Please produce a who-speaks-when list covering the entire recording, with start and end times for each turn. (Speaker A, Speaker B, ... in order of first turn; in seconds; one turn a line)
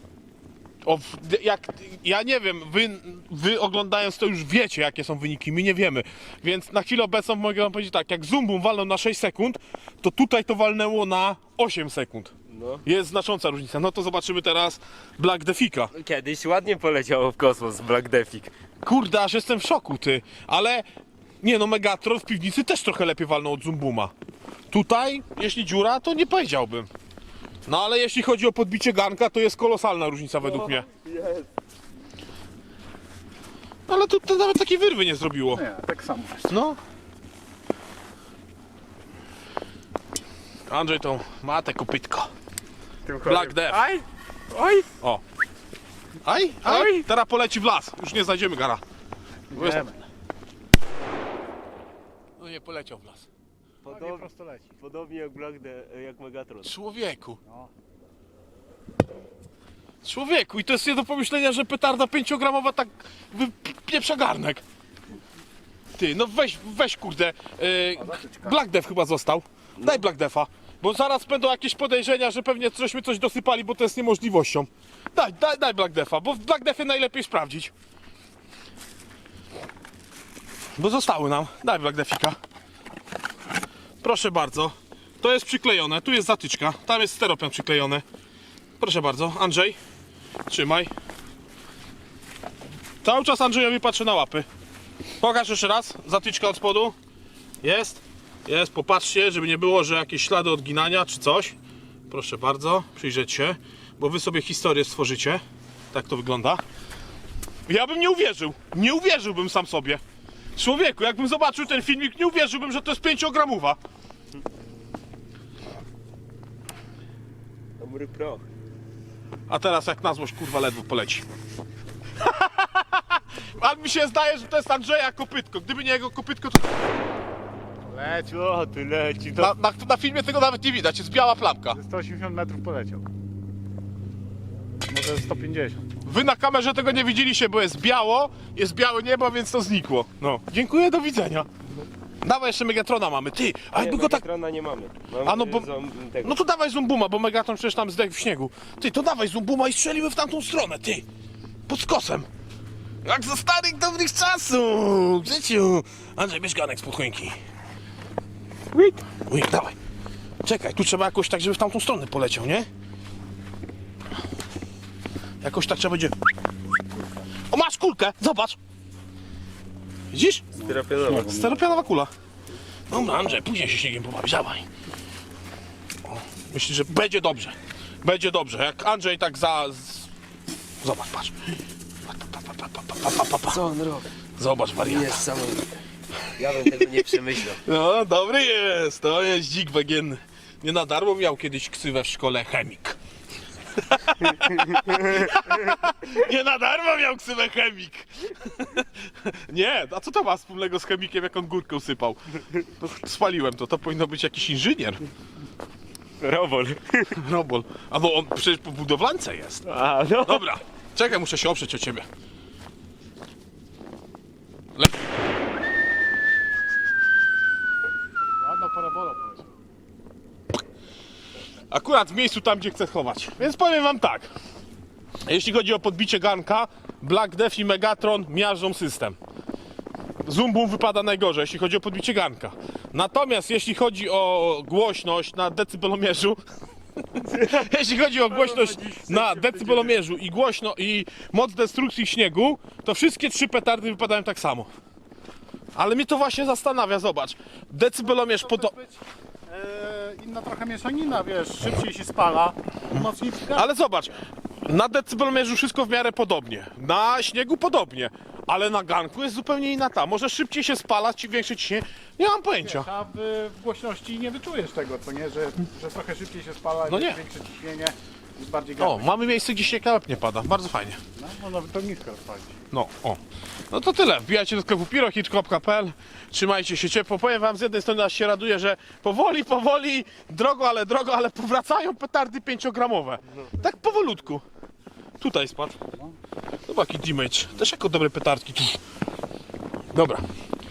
Speaker A: 0.8-12.3
Speaker B: 12.5-12.8
Speaker A: 12.8-15.9
Speaker B: 15.9-18.5
Speaker A: 18.8-20.9
Speaker A: 21.4-24.1
Speaker A: 24.7-26.9
Speaker A: 27.6-30.9
Speaker B: 30.4-31.5
Speaker A: 33.9-35.6
Speaker C: 35.5-36.6
Speaker A: 36.5-36.8
Speaker A: 40.7-42.3
Speaker B: 43.1-44.9
Speaker A: 43.2-43.9
Speaker A: 46.2-48.8
Speaker B: 46.6-47.1
Speaker C: 49.5-50.0
Speaker A: 49.5-49.9
Speaker A: 52.4-53.3
Speaker B: 53.8-56.7
Speaker C: 53.9-54.7
Speaker A: 56.6-57.4
Speaker C: 57.5-57.7
Speaker A: 60.0-64.6
Speaker A: 66.0-77.7
Speaker A: 80.8-82.4
Speaker A: 84.0-88.0
Speaker A: 88.8-89.8
Speaker A: 90.5-90.9
Speaker A: 93.0-94.5
Speaker A: 95.2-97.0
Speaker A: 97.6-101.5
Speaker A: 102.1-106.6
Speaker A: 107.7-110.0
Speaker A: 110.6-113.8
Speaker B: 117.8-118.5
Speaker A: 119.5-121.2
Speaker A: 122.2-126.9
Speaker C: 127.8-128.5
Speaker B: 128.3-129.6
Speaker A: 129.4-131.8
Speaker C: 131.7-133.1
Speaker C: 134.9-135.9
Speaker A: 136.0-141.5
Speaker A: 142.2-144.2
Speaker B: 143.7-146.4
Speaker A: 145.2-145.7
Speaker A: 146.2-151.0
Speaker A: 151.7-152.3
Speaker A: 153.0-157.4
Speaker B: 158.7-159.0
Speaker A: 159.1-159.8
Speaker A: 160.4-162.7
Speaker A: 165.4-166.1
Speaker A: 167.5-168.6
Speaker A: 170.1-170.5
Speaker C: 170.6-171.7
Speaker B: 170.6-171.4
Speaker A: 171.2-172.1
Speaker A: 172.9-174.7
Speaker A: 176.0-180.1
Speaker A: 180.8-183.6
Speaker B: 183.5-184.1
Speaker A: 184.4-185.2
Speaker B: 184.8-185.7
Speaker B: 186.4-187.6
Speaker A: 187.6-193.0
Speaker A: 193.8-205.0
Speaker B: 194.4-195.1
Speaker B: 206.2-207.2
Speaker A: 207.1-209.6
Speaker B: 209.7-210.5
Speaker A: 210.2-212.1
Speaker C: 218.4-219.5
Speaker A: 221.7-224.3
Speaker A: 225.2-229.2
Speaker A: 230.2-236.4
Speaker A: 237.1-244.7
Speaker B: 237.3-237.7
Speaker B: 238.3-239.9
Speaker A: 245.8-248.8
Speaker C: 248.1-253.7
Speaker A: 253.5-262.9
Speaker C: 262.6-269.4
Speaker A: 266.9-267.2
Speaker A: 268.8-271.0
Speaker C: 271.1-272.6
Speaker A: 272.7-273.2
Speaker A: 273.7-284.4
Speaker A: 285.2-285.8
Speaker A: 286.7-288.8
Speaker A: 289.9-290.2